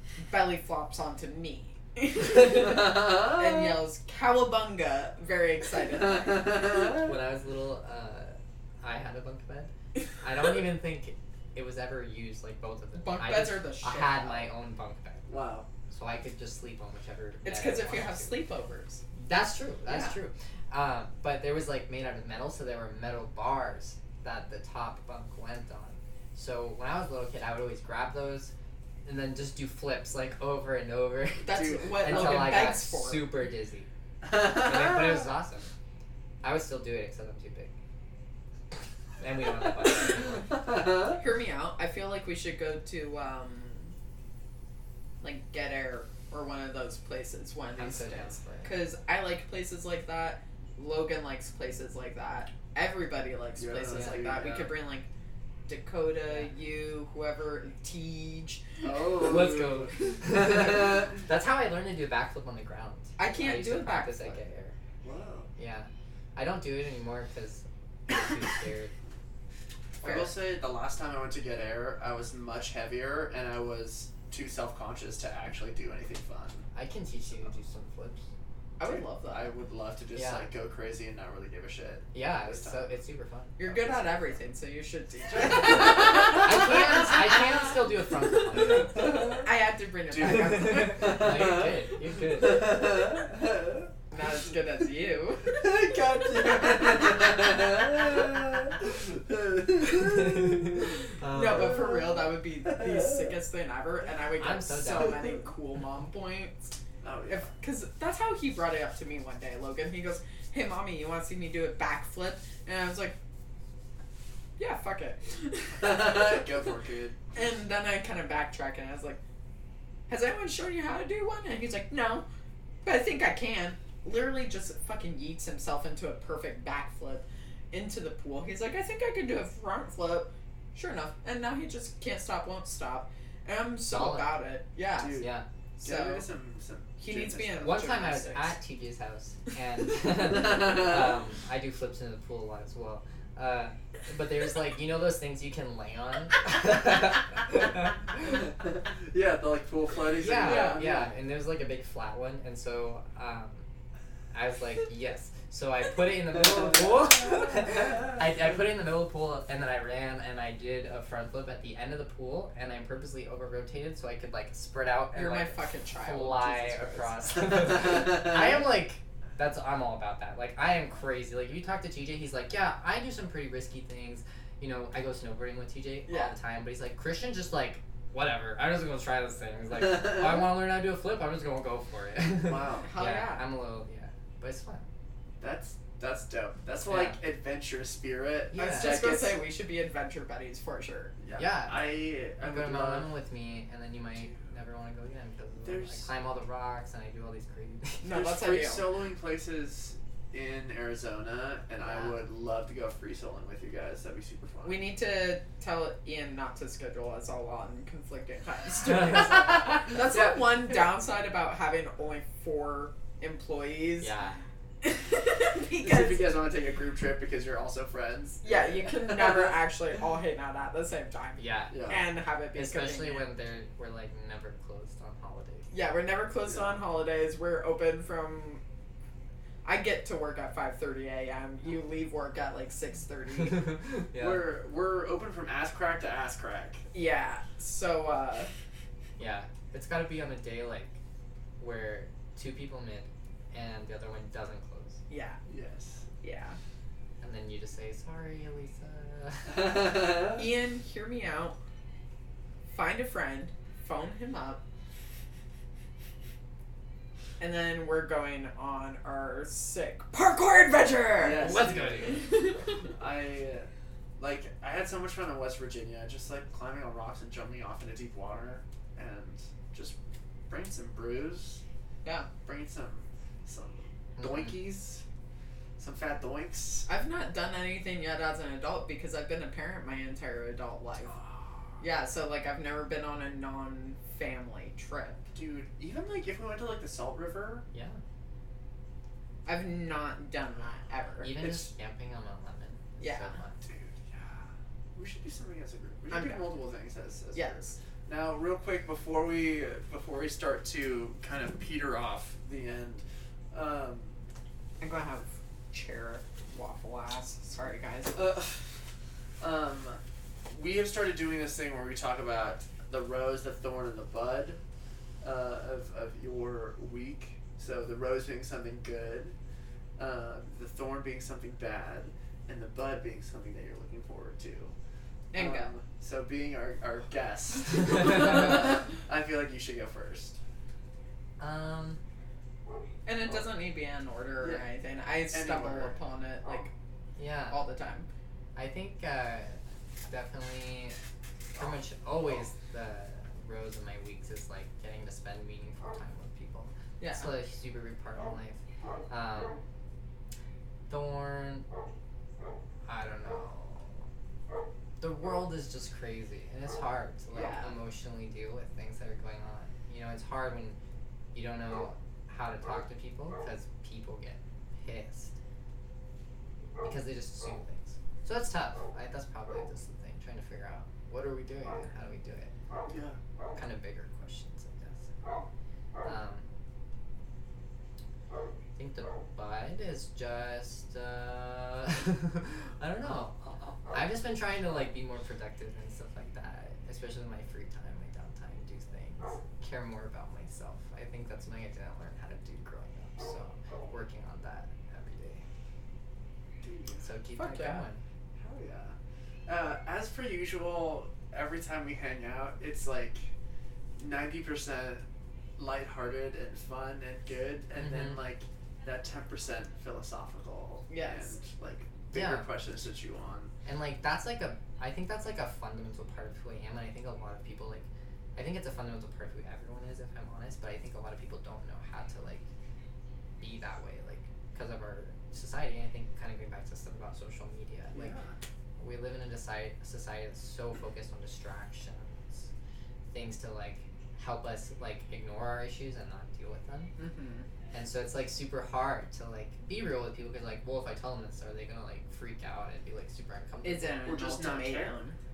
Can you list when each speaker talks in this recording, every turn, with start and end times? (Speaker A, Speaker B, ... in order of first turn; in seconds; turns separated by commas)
Speaker A: 0.2-6.8, Speaker B: 2.4-3.6, Speaker B: 6.2-7.1, Speaker C: 6.9-15.3, Speaker A: 13.0-14.5, Speaker B: 15.3-15.7, Speaker C: 15.9-18.4, Speaker A: 17.4-19.0, Speaker C: 19.2-28.5, Speaker A: 19.9-20.2, Speaker C: 29.0-35.7, Speaker A: 31.4-33.3, Speaker B: 31.5-32.5, Speaker B: 34.2-35.3, Speaker C: 36.4-37.7, Speaker C: 39.2-40.6, Speaker B: 40.4-41.2, Speaker A: 41.1-43.9, Speaker A: 45.2-55.1, Speaker C: 47.8-48.8, Speaker B: 53.6-54.7, Speaker C: 53.9-54.2, Speaker A: 55.7-58.9, Speaker B: 58.8-61.0, Speaker C: 59.1-64.7, Speaker A: 63.2-64.4, Speaker B: 65.0-65.5, Speaker C: 65.6-68.9, Speaker A: 70.0-70.3, Speaker B: 70.0-76.6, Speaker C: 76.7-78.3, Speaker A: 78.8-79.5, Speaker B: 78.9-82.9, Speaker C: 80.1-80.5, Speaker C: 82.1-83.9, Speaker A: 83.6-87.4, Speaker B: 85.3-86.5, Speaker C: 85.7-89.0, Speaker A: 88.6-91.3, Speaker B: 88.9-89.5, Speaker B: 90.1-93.9, Speaker C: 90.3-92.8, Speaker A: 94.1-95.7, Speaker B: 95.5-101.0, Speaker C: 99.9-102.1, Speaker A: 101.3-106.7, Speaker B: 102.7-103.3, Speaker C: 104.4-105.3, Speaker B: 107.0-107.5, Speaker A: 107.3-113.2, Speaker A: 114.6-116.6, Speaker B: 115.8-117.2, Speaker A: 117.3-119.2, Speaker A: 120.1-122.2, Speaker A: 122.8-135.2, Speaker C: 133.9-134.3, Speaker B: 135.0-137.9, Speaker C: 135.1-135.4, Speaker A: 135.8-136.3, Speaker A: 137.0-138.5, Speaker C: 137.6-147.9, Speaker B: 140.2-141.2, Speaker B: 148.6-151.1, Speaker C: 150.1-153.7, Speaker A: 150.5-150.8, Speaker C: 154.3-184.8, Speaker A: 165.1-167.6, Speaker A: 176.1-176.3, Speaker B: 182.4-182.9, Speaker A: 182.8-183.4, Speaker B: 185.4-189.4, Speaker C: 186.9-187.2, Speaker C: 188.5-189.0, Speaker A: 188.5-191.1, Speaker B: 191.2-193.1, Speaker C: 191.3-198.1, Speaker B: 195.6-196.1, Speaker A: 198.0-198.8, Speaker B: 198.1-204.8, Speaker C: 201.9-202.1, Speaker A: 204.6-214.1, Speaker C: 214.0-214.4, Speaker A: 214.8-216.3, Speaker B: 215.8-219.5, Speaker A: 218.4-223.2, Speaker C: 221.4-221.8, Speaker B: 221.7-222.0, Speaker C: 222.5-225.7, Speaker A: 225.7-228.6, Speaker B: 226.5-226.8, Speaker A: 229.6-233.8, Speaker C: 233.5-234.4, Speaker B: 234.1-236.8, Speaker A: 236.9-238.5, Speaker C: 239.2-240.9, Speaker C: 241.6-245.0, Speaker A: 245.1-245.4, Speaker B: 245.5-246.1, Speaker A: 246.2-246.6, Speaker C: 247.2-249.8, Speaker B: 249.6-250.4, Speaker A: 250.3-251.6, Speaker A: 252.7-254.6, Speaker A: 257.4-262.7, Speaker B: 261.2-262.3, Speaker C: 261.3-262.3, Speaker B: 262.9-269.9, Speaker B: 270.5-271.6, Speaker B: 272.4-275.0, Speaker C: 274.2-274.5, Speaker B: 275.8-276.9, Speaker A: 276.9-281.1, Speaker B: 281.1-281.6, Speaker A: 281.8-285.2, Speaker B: 285.3-287.6, Speaker C: 287.7-288.0, Speaker A: 289.4-291.6, Speaker C: 291.2-293.6, Speaker A: 293.0-293.3, Speaker B: 293.6-304.2, Speaker A: 296.1-296.5, Speaker A: 297.3-297.8, Speaker A: 304.8-308.2, Speaker B: 308.1-308.6, Speaker B: 309.4-314.6, Speaker B: 315.2-319.3, Speaker B: 320.0-324.7, Speaker A: 325.3-325.7, Speaker B: 325.3-330.4, Speaker C: 331.4-332.0, Speaker A: 333.1-336.7, Speaker B: 335.3-335.9, Speaker C: 337.1-337.6, Speaker A: 337.5-338.1, Speaker C: 338.6-341.0, Speaker C: 341.5-348.6, Speaker A: 347.0-347.3, Speaker C: 349.1-349.6, Speaker C: 350.9-351.6, Speaker C: 352.9-354.0, Speaker C: 355.0-360.8, Speaker A: 357.3-357.7, Speaker C: 361.3-365.3, Speaker C: 366.8-372.5, Speaker B: 372.9-373.2, Speaker C: 373.5-375.1, Speaker C: 376.0-376.4, Speaker C: 378.8-395.4, Speaker B: 396.6-397.1, Speaker C: 397.0-398.0, Speaker A: 397.4-397.8, Speaker B: 398.4-403.3, Speaker B: 404.0-405.0, Speaker B: 405.6-413.5, Speaker C: 407.8-408.2, Speaker A: 410.9-411.4, Speaker C: 412.1-412.5, Speaker C: 413.6-422.4, Speaker C: 423.4-428.1, Speaker B: 427.9-428.4, Speaker C: 428.8-432.5, Speaker C: 433.1-436.9, Speaker A: 437.0-437.5, Speaker C: 437.7-444.2, Speaker A: 443.6-445.2, Speaker B: 444.1-445.0